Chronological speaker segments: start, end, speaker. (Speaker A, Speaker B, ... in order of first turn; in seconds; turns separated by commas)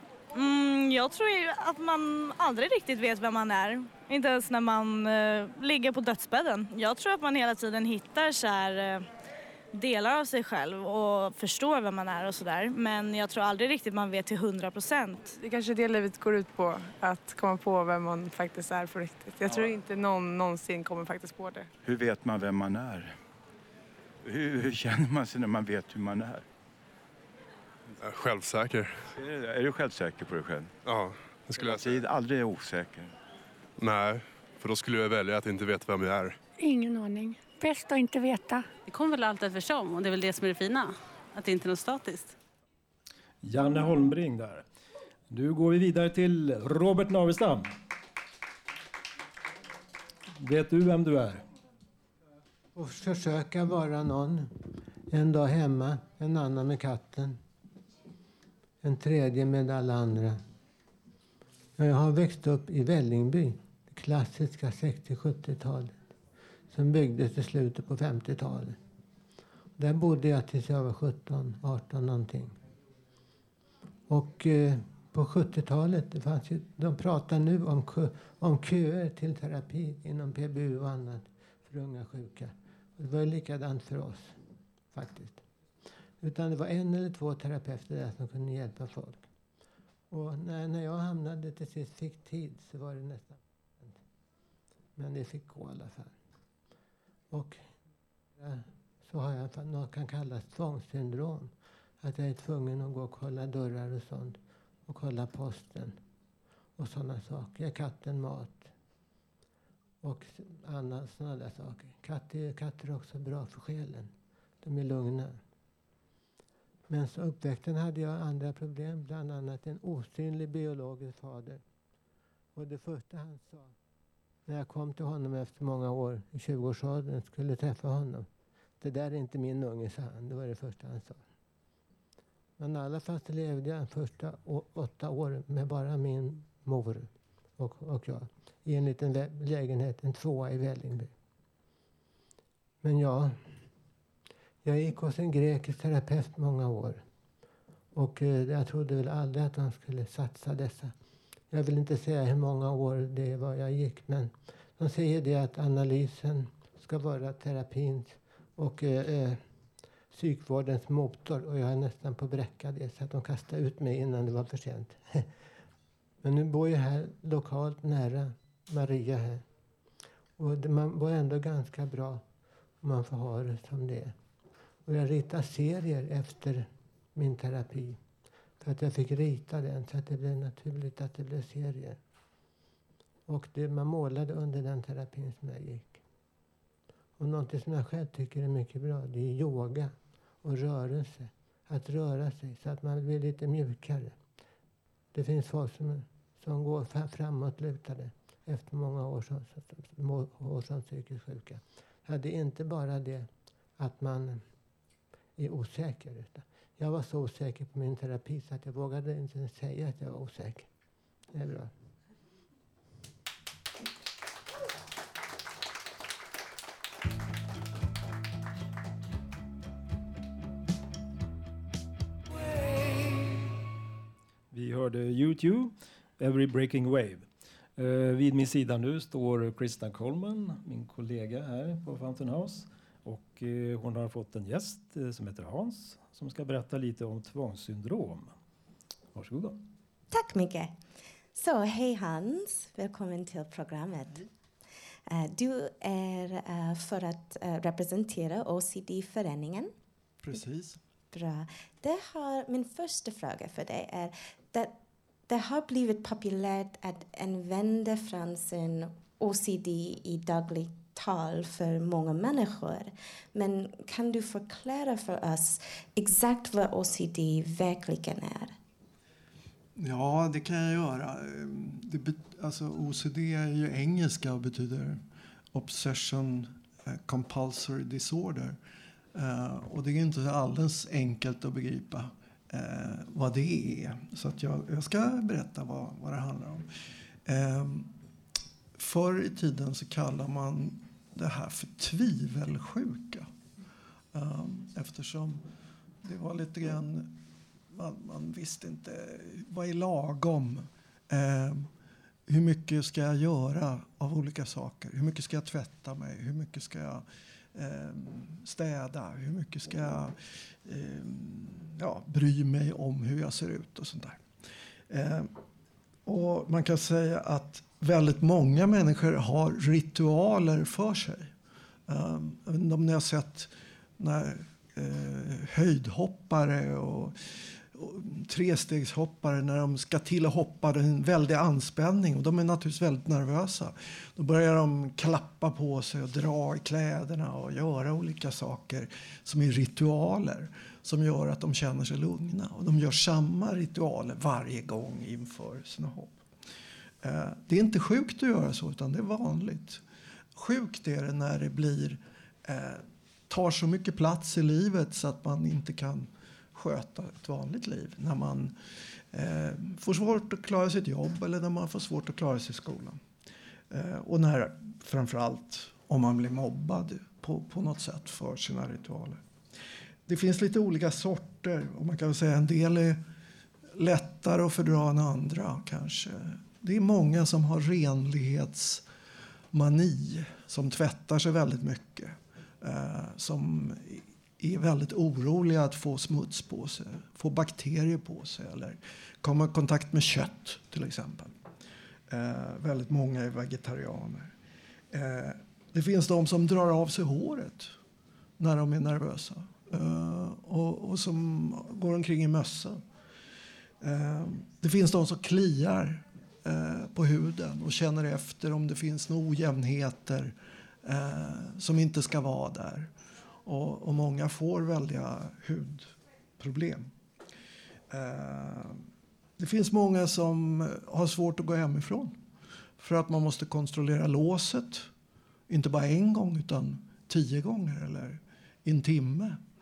Speaker A: 0.3-9.1, Speaker A: 9.7-15.3, Speaker B: 15.4-21.7, Speaker C: 21.8-23.2, Speaker C: 24.2-26.4, Speaker D: 28.0-29.0, Speaker C: 29.1-30.7, Speaker D: 30.8-32.0, Speaker C: 31.5-33.1, Speaker D: 33.8-36.4, Speaker E: 36.6-38.6, Speaker F: 38.9-42.3, Speaker G: 43.4-44.6, Speaker G: 45.3-47.7, Speaker G: 50.4-51.4, Speaker H: 52.7-54.5, Speaker H: 55.1-57.4, Speaker H: 58.8-60.4, Speaker H: 61.8-66.0, Speaker H: 66.7-68.8, Speaker H: 69.8-72.5, Speaker H: 74.1-84.3, Speaker H: 84.9-85.4, Speaker H: 86.2-89.3, Speaker H: 90.1-94.0, Speaker H: 95.0-96.2, Speaker H: 97.3-97.6, Speaker H: 98.4-106.0, Speaker H: 106.8-108.7, Speaker H: 110.0-115.4, Speaker H: 116.9-121.6, Speaker H: 122.5-123.7, Speaker H: 124.5-128.3, Speaker H: 128.8-131.2, Speaker H: 132.6-141.1, Speaker H: 142.8-143.3, Speaker H: 144.6-147.0, Speaker H: 147.9-150.9, Speaker H: 151.5-159.4, Speaker H: 160.1-165.2, Speaker H: 166.2-169.4, Speaker H: 170.4-172.2, Speaker H: 172.8-174.1, Speaker H: 174.8-178.0, Speaker H: 178.6-182.0, Speaker H: 183.3-186.0, Speaker H: 187.2-194.2, Speaker H: 195.1-204.4, Speaker H: 205.4-210.7, Speaker H: 211.3-211.7, Speaker G: 224.5-227.2, Speaker G: 227.8-238.3, Speaker G: 239.1-239.6, Speaker I: 240.1-240.8, Speaker I: 241.3-244.3, Speaker I: 245.1-249.7, Speaker J: 250.2-250.8, Speaker I: 251.1-254.8, Speaker I: 255.3-268.5, Speaker J: 269.8-275.0, Speaker J: 275.5-278.6, Speaker J: 279.1-286.7, Speaker J: 287.2-287.9, Speaker J: 288.8-293.3, Speaker J: 294.1-295.4, Speaker J: 296.0-301.7, Speaker J: 302.3-314.2, Speaker J: 314.9-315.3, Speaker J: 316.1-321.3, Speaker J: 321.9-327.2, Speaker J: 327.7-346.2, Speaker J: 347.0-349.8, Speaker J: 350.3-358.5, Speaker J: 359.1-363.0, Speaker J: 363.7-369.2, Speaker J: 370.1-373.0, Speaker J: 373.8-378.9, Speaker J: 379.5-391.3, Speaker J: 392.1-394.3, Speaker J: 394.9-397.8, Speaker J: 398.4-402.8, Speaker J: 403.8-412.9, Speaker J: 413.4-416.9, Speaker J: 417.9-418.8, Speaker J: 419.4-422.2, Speaker J: 422.8-424.9, Speaker J: 425.5-429.4